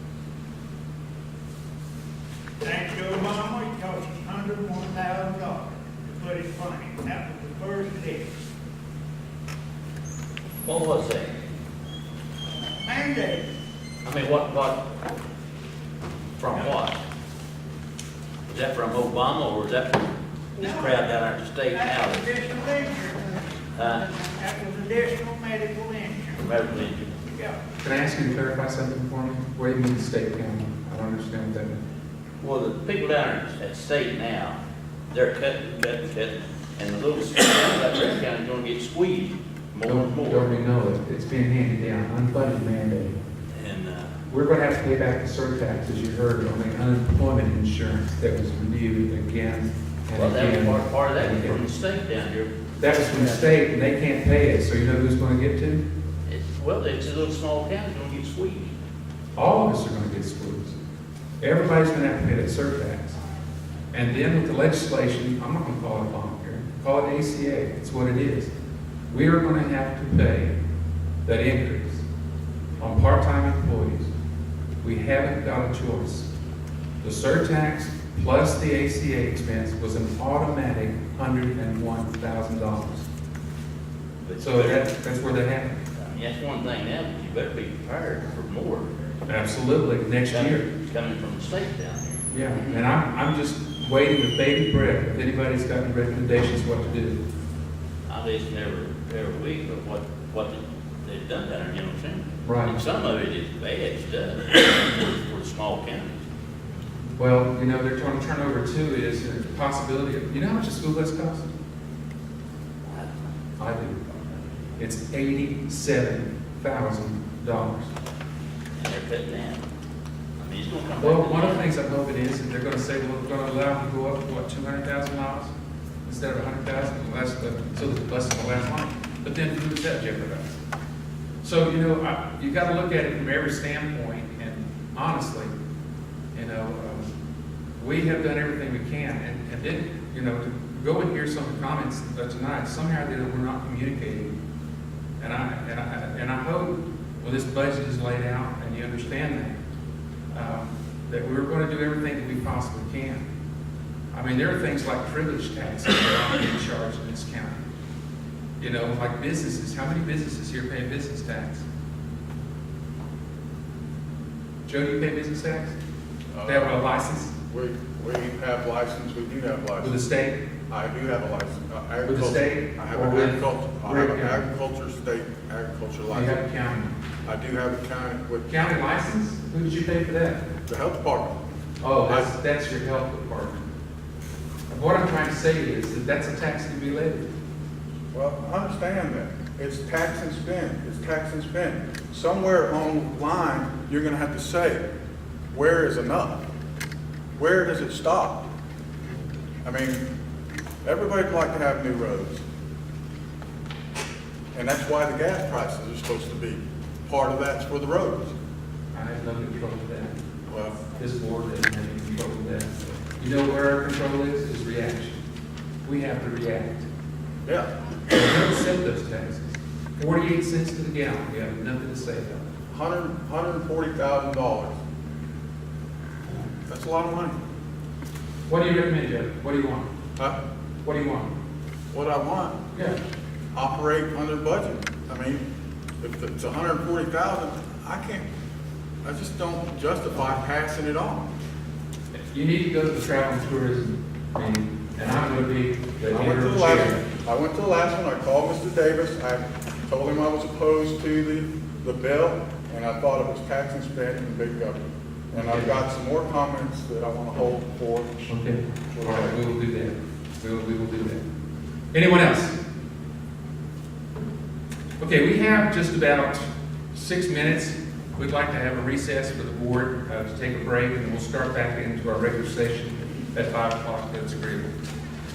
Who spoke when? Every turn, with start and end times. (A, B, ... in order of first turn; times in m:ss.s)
0:02.6-0:08.3 A
0:10.6-0:11.4 B
0:12.7-0:13.5 A
0:14.0-0:14.9 B
0:16.4-0:17.0 B
0:18.5-0:22.3 B
0:20.6-0:21.1 A
0:21.7-0:26.4 A
0:23.8-0:24.1 B
0:26.4-0:27.2 B
0:27.3-0:27.6 A
0:27.8-0:31.8 C
0:32.4-0:34.6 B
0:35.1-0:40.5 B
0:39.9-0:43.2 C
0:43.5-0:44.1 B
0:44.3-0:51.7 C
0:50.2-0:53.6 B
0:52.8-0:55.8 C
0:56.3-0:58.7 B
0:59.4-1:00.8 C
1:01.4-1:03.2 C
1:03.9-1:08.5 C
1:09.1-1:10.6 C
1:11.2-1:12.0 C
1:12.8-1:14.1 C
1:14.8-1:16.3 C
1:17.0-1:23.1 C
1:24.2-1:24.8 B
1:24.4-1:25.8 C
1:26.0-1:28.9 B
1:29.3-1:30.7 C
1:30.3-1:32.2 B
1:32.3-1:37.2 C
1:38.1-1:46.1 B
1:42.4-1:42.8 C
1:47.2-1:51.5 C
1:53.6-1:54.0 C
1:54.8-1:57.9 C
1:58.8-1:59.6 B
2:00.4-2:01.7 B
2:01.0-2:05.5 C
2:06.0-2:10.6 C
2:11.4-2:15.5 C
2:16.3-2:17.1 C
2:17.8-2:24.3 C
2:25.2-2:29.6 C
2:30.3-2:33.2 C
2:34.1-2:37.6 C
2:38.6-2:41.6 C
2:44.7-2:45.8 C
2:46.3-2:46.8 D
2:46.4-2:47.3 C
2:47.5-2:50.0 D
2:49.8-2:50.4 C
2:50.7-2:56.4 D
2:52.0-2:54.4 C
2:56.1-2:57.0 C
2:57.2-2:58.5 D
2:58.5-3:00.4 C
3:00.7-3:01.4 D
3:01.8-3:03.7 C
3:04.7-3:07.3 C
3:08.1-3:14.8 D
3:15.5-3:16.4 D
3:17.4-3:18.4 D
3:19.6-3:20.0 D
3:20.8-3:22.4 D
3:24.5-3:28.3 D
3:28.9-3:30.2 C
3:30.5-3:30.8 D
3:30.9-3:35.2 C
3:35.8-3:36.9 C
3:38.1-3:42.5 C
3:42.7-3:44.8 D
3:46.7-3:47.4 D
3:48.5-3:49.9 C
3:50.8-3:51.3 C
3:51.9-3:52.6 D
3:52.7-3:53.0 C
3:53.5-3:55.4 D
3:56.0-3:58.3 D
3:59.0-4:01.3 D
4:02.1-4:07.0 C
4:06.1-4:18.3 D
4:15.4-4:15.7 C
4:18.3-4:21.2 C
4:18.9-4:19.4 D
4:21.9-4:22.6 C
4:25.0-4:34.7 C